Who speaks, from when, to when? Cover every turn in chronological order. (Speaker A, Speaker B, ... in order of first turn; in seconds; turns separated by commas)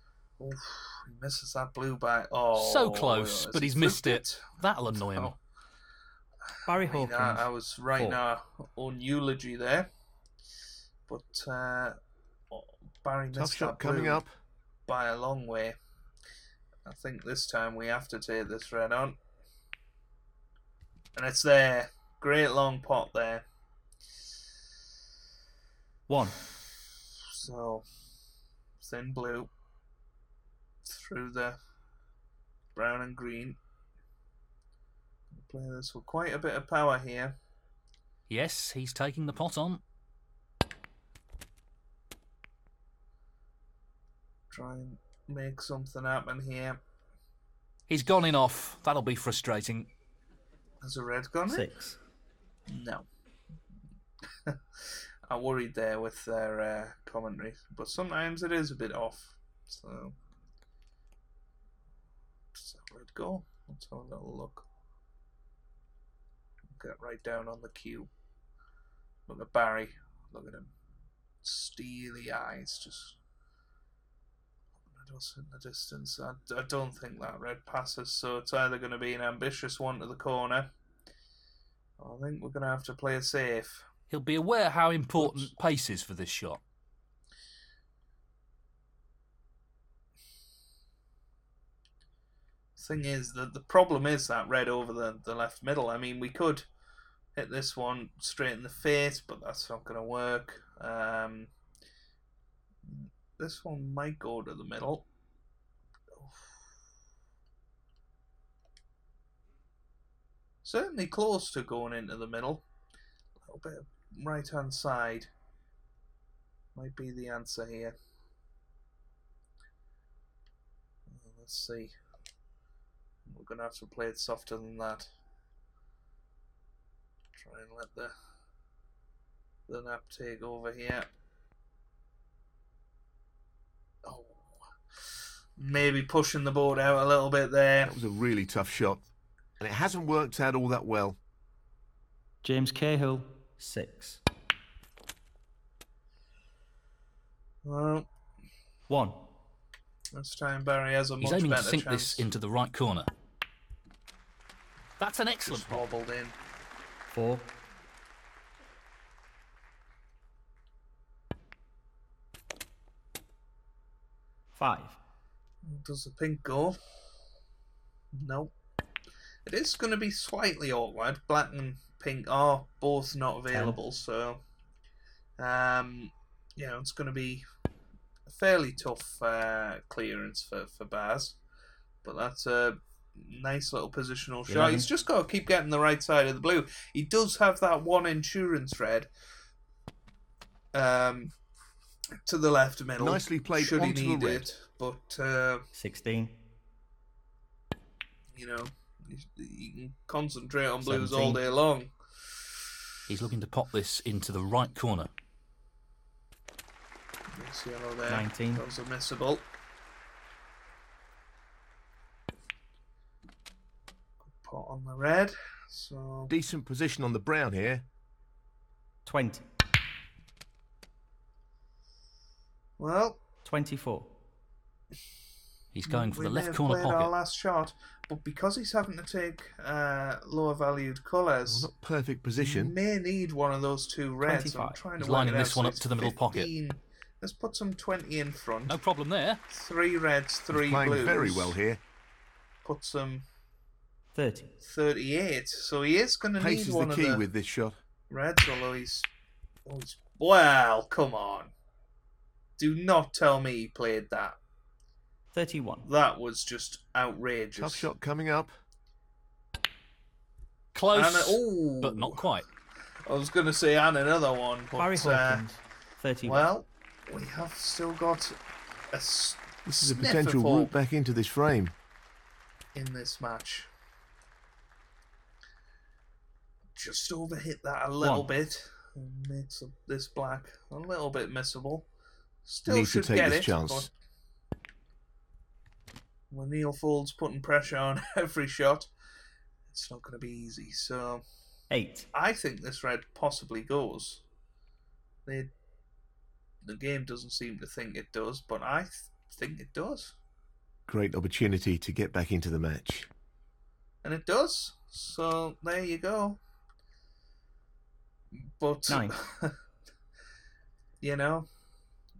Speaker A: 0.4-5.3, Speaker B: 2.5-5.3, Speaker C: 6.7-8.2, Speaker A: 6.8-9.9, Speaker A: 11.1-12.0, Speaker A: 12.5-14.2, Speaker D: 13.3-14.3, Speaker A: 14.9-15.8, Speaker A: 16.8-19.2, Speaker A: 21.1-23.4, Speaker C: 26.1-26.4, Speaker A: 27.3-27.8, Speaker A: 28.8-29.5, Speaker A: 30.8-31.6, Speaker A: 32.7-33.6, Speaker A: 35.3-37.4, Speaker B: 38.3-39.8, Speaker A: 44.5-46.8, Speaker B: 47.9-49.9, Speaker A: 50.8-51.7, Speaker C: 51.5-52.0, Speaker A: 52.7-53.0, Speaker A: 54.5-60.1, Speaker A: 62.5-64.6, Speaker A: 66.7-68.1, Speaker A: 69.3-70.7, Speaker A: 71.4-73.2, Speaker A: 74.9-80.7, Speaker A: 82.0-83.9, Speaker B: 84.1-86.6, Speaker A: 85.2-85.5, Speaker A: 92.8-96.7, Speaker A: 97.3-101.5, Speaker A: 102.8-105.0, Speaker A: 110.6-112.6, Speaker A: 113.5-115.3, Speaker A: 116.7-117.9, Speaker A: 121.1-121.9, Speaker A: 123.3-125.1, Speaker A: 127.3-128.1, Speaker A: 129.7-131.1, Speaker A: 134.0-134.6, Speaker A: 135.6-138.0, Speaker D: 137.8-139.0, Speaker D: 139.6-141.2, Speaker C: 142.4-144.2, Speaker A: 147.6-148.1, Speaker C: 148.9-149.2, Speaker A: 150.1-152.2, Speaker B: 151.2-153.1, Speaker B: 155.0-155.8, Speaker A: 155.4-156.3, Speaker C: 157.1-157.5, Speaker C: 164.6-165.0, Speaker A: 165.6-166.8, Speaker A: 168.1-168.5, Speaker A: 169.4-174.4, Speaker C: 173.5-173.8, Speaker A: 175.4-177.4, Speaker A: 178.3-181.4, Speaker A: 182.0-189.1, Speaker C: 184.5-184.9, Speaker A: 190.7-191.3, Speaker A: 192.2-195.7, Speaker D: 193.0-194.4, Speaker C: 195.7-196.3, Speaker A: 198.3-201.9, Speaker C: 200.8-201.4, Speaker B: 203.1-205.1, Speaker A: 207.3-209.4, Speaker C: 208.1-208.7, Speaker A: 214.2-216.3, Speaker D: 216.3-217.8, Speaker C: 219.1-219.4, Speaker A: 222.8-223.2, Speaker C: 223.4-224.1, Speaker B: 225.7-227.1, Speaker A: 225.8-231.7, Speaker D: 231.4-232.7, Speaker A: 232.4-238.8, Speaker C: 234.2-234.8, Speaker B: 235.0-236.5, Speaker B: 238.7-239.4, Speaker A: 239.5-241.6, Speaker D: 240.5-241.8, Speaker A: 242.6-243.2, Speaker C: 244.1-244.5, Speaker A: 244.6-247.2, Speaker D: 246.4-247.8, Speaker A: 248.1-249.1, Speaker A: 249.7-251.5, Speaker A: 252.6-254.4, Speaker C: 255.3-255.9, Speaker A: 255.8-257.9, Speaker D: 257.6-258.6, Speaker B: 260.7-262.4, Speaker A: 260.9-262.2, Speaker A: 263.1-265.4, Speaker C: 264.8-266.4, Speaker A: 266.2-268.4, Speaker A: 268.9-270.7, Speaker D: 269.6-271.7, Speaker A: 272.7-273.7, Speaker A: 276.8-281.9, Speaker C: 278.0-278.3, Speaker A: 282.4-283.9, Speaker D: 282.7-283.9, Speaker A: 286.3-288.9, Speaker A: 289.7-291.2, Speaker C: 291.7-292.1, Speaker A: 292.1-294.2, Speaker A: 295.2-295.5, Speaker A: 296.6-300.1, Speaker D: 300.9-303.1, Speaker A: 304.0-306.4, Speaker A: 308.3-309.6, Speaker A: 311.0-311.5